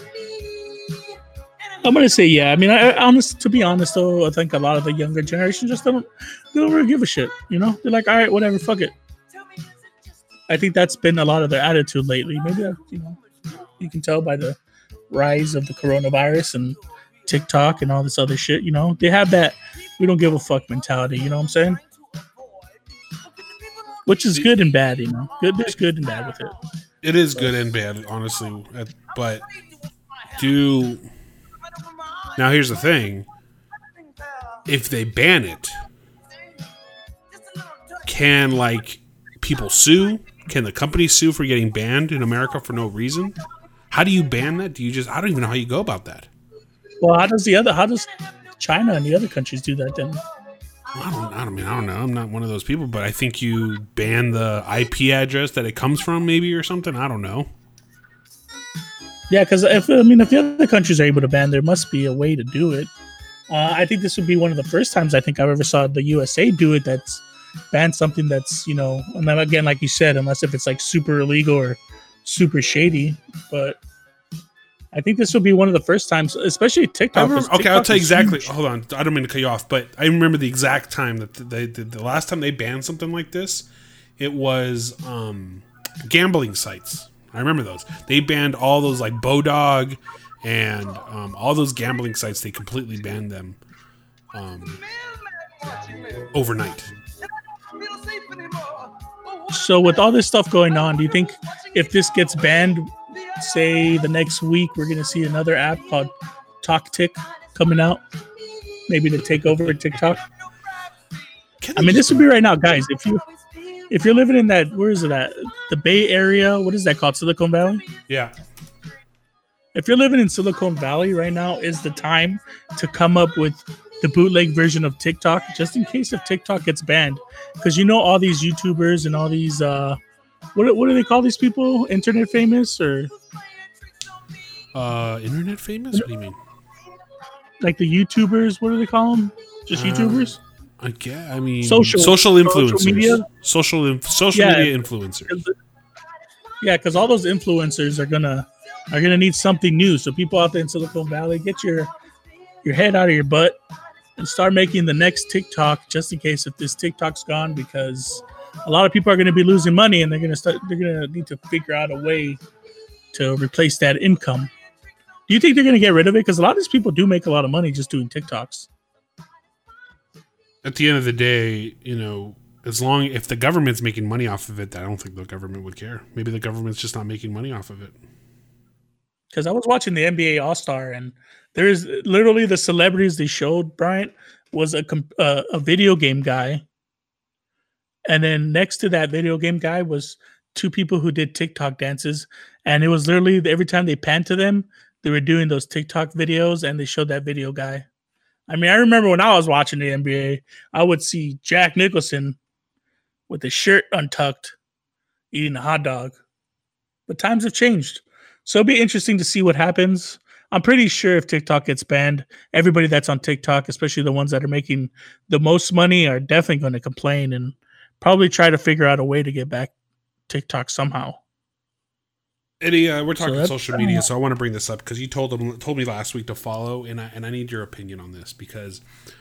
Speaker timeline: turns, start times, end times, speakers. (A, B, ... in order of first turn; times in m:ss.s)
0:01.8-0:08.9 A
0:10.5-0:13.2 A
0:13.8-0:14.6 A
0:15.1-0:21.8 A
0:24.1-0:26.6 A
0:27.0-0:29.4 B
0:30.4-0:31.1 B
0:32.4-0:33.3 B
0:34.7-0:35.8 B
0:38.1-0:43.4 B
0:43.9-0:46.3 B
0:47.0-0:50.2 A
0:50.9-0:57.5 B
0:59.3-1:02.9 A
1:03.5-1:13.8 A
1:14.9-1:18.5 A
1:17.1-1:23.7 B
1:24.2-1:33.6 B
1:34.3-1:34.8 B
1:36.3-1:36.9 B
1:39.5-1:48.0 A
1:48.9-1:50.2 A
1:51.6-1:52.3 B
1:51.8-1:53.2 A
1:53.9-1:57.9 A
1:58.1-1:58.3 B
1:59.7-2:10.0 A
2:10.6-2:13.1 A
2:14.7-2:16.4 B
2:17.6-2:20.4 A
2:19.7-2:25.4 B
2:21.6-2:23.3 A
2:24.3-2:25.6 A
2:26.6-2:31.9 A
2:32.6-2:33.6 A
2:34.2-2:42.4 A
2:43.1-2:44.5 A
2:45.3-2:48.7 A
2:50.6-2:58.0 B
2:59.3-3:06.6 A
3:08.1-3:17.9 A
3:18.5-3:22.4 A
3:23.3-3:24.6 A
3:25.3-3:26.2 A
3:27.1-3:39.7 A
3:40.3-3:41.2 A
3:42.6-3:48.8 B
3:43.2-3:44.1 A